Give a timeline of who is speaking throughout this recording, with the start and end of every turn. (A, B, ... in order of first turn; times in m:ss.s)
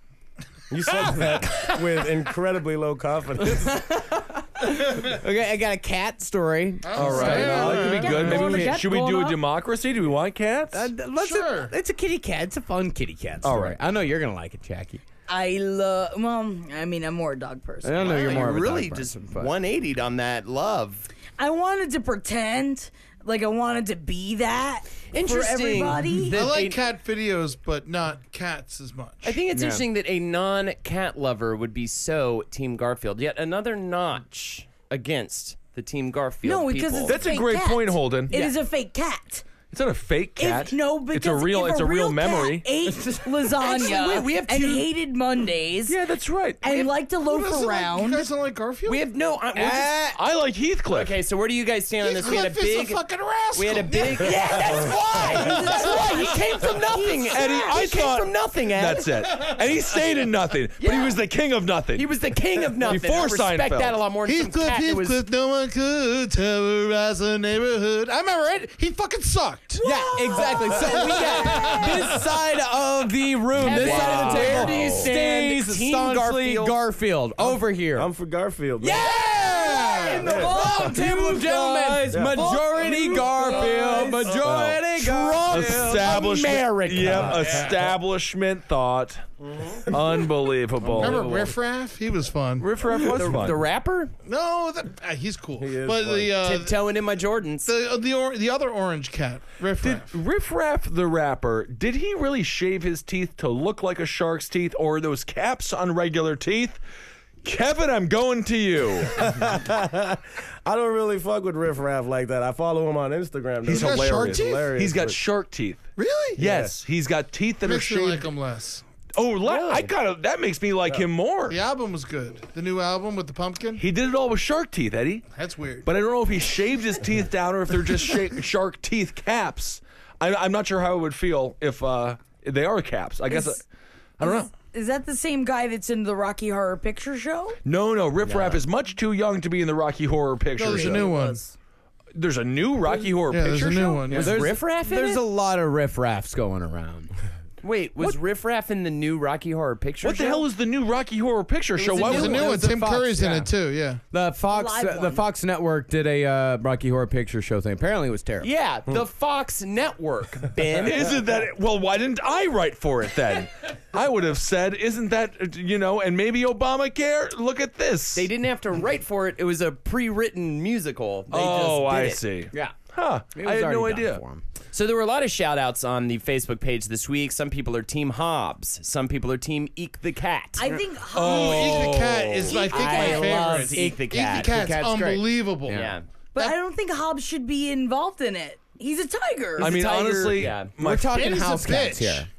0:00.7-0:03.8 A
0:03.5-0:09.4 B
0:06.8-0:08.6 C
0:06.9-0:10.9 D
0:07.1-0:09.3 E
0:07.6-0:08.1 A
0:10.7-0:15.0 B
0:11.2-0:11.7 C
0:13.4-0:13.8 D
0:15.3-0:18.6 E
0:17.8-0:19.5 B
0:18.0-0:21.1 F
0:21.4-0:26.4 E
0:25.1-0:26.8 F
0:26.3-0:29.4 C
0:29.2-0:37.2 F
0:29.5-0:29.9 B
0:36.4-0:39.5 E
0:37.1-0:38.3 D
0:39.6-0:42.7 D
0:40.4-0:46.0 E
0:43.6-0:44.9 F
0:45.9-0:46.6 D
0:46.6-0:48.3 E
0:47.2-0:49.0 C
0:48.9-0:50.0 F
0:49.6-0:50.2 B
0:50.1-0:51.1 D
0:50.9-0:53.0 F
0:52.0-0:56.3 C
0:53.6-0:59.5 F
0:55.2-0:57.8 E
0:57.3-1:02.1 D
1:00.8-1:01.1 F
1:02.0-1:05.2 F
1:02.8-1:04.0 D
1:04.2-1:09.8 C
1:09.8-1:12.1 E
1:09.8-1:18.1 B
1:10.8-1:12.1 C
1:11.1-1:11.6 F
1:13.6-1:16.8 F
1:13.7-1:14.6 E
1:14.5-1:15.1 D
1:18.0-1:19.1 A
1:18.8-1:19.5 F
1:18.8-1:26.1 B
1:19.2-1:21.7 E
1:19.6-1:20.3 C
1:20.2-1:20.6 A
1:20.4-1:22.2 F
1:22.1-1:22.4 A
1:22.4-1:24.3 E
1:22.9-1:24.2 F
1:24.4-1:29.2 D
1:25.0-1:27.7 F
1:29.8-1:31.4 D
1:30.9-1:32.7 C
1:30.9-1:31.5 F
1:32.6-1:34.1 F
1:32.8-1:33.6 D
1:34.2-1:36.8 C
1:35.6-1:36.4 A
1:36.4-1:37.7 F
1:37.6-1:40.2 C
1:39.8-1:46.8 D
1:47.4-1:49.3 D
1:49.2-1:55.2 A
1:53.6-1:55.8 D
1:53.6-1:54.7 C
1:56.0-1:56.4 C
1:56.4-1:58.3 D
1:56.4-1:56.8 A
1:57.6-1:58.8 C
1:59.2-2:01.6 D
1:59.5-1:59.9 F
2:01.5-2:03.8 C
2:03.8-2:05.2 D
2:05.3-2:05.9 C
2:05.9-2:13.6 D
2:13.3-2:13.6 E
2:14.2-2:14.5 D
2:14.2-2:17.6 E
2:17.6-2:21.2 D
2:18.2-2:18.6 F
2:20.6-2:21.4 C
2:20.7-2:21.5 E
2:22.1-2:24.2 D
2:23.2-2:24.4 C
2:24.1-2:25.2 F
2:24.1-2:27.1 B
2:27.6-2:30.5 F
2:30.0-2:32.6 D
2:31.8-2:32.6 F
2:32.0-2:33.5 B
2:32.0-2:34.0 C
2:34.1-2:38.5 B
2:34.5-2:35.2 E
2:38.4-2:41.2 F
2:40.8-2:48.3 D
2:48.1-2:52.2 F
2:51.3-2:54.2 D
2:53.3-2:54.4 B
2:54.7-3:00.7 F
3:00.6-3:01.9 E
3:01.1-3:02.5 D
3:01.2-3:06.6 C
3:02.4-3:03.7 E
3:02.5-3:04.6 F
3:03.7-3:06.0 B
3:05.7-3:06.0 F
3:06.3-3:09.8 E
3:09.6-3:10.7 F
3:09.6-3:11.4 D
3:10.8-3:12.3 B
3:11.1-3:12.2 C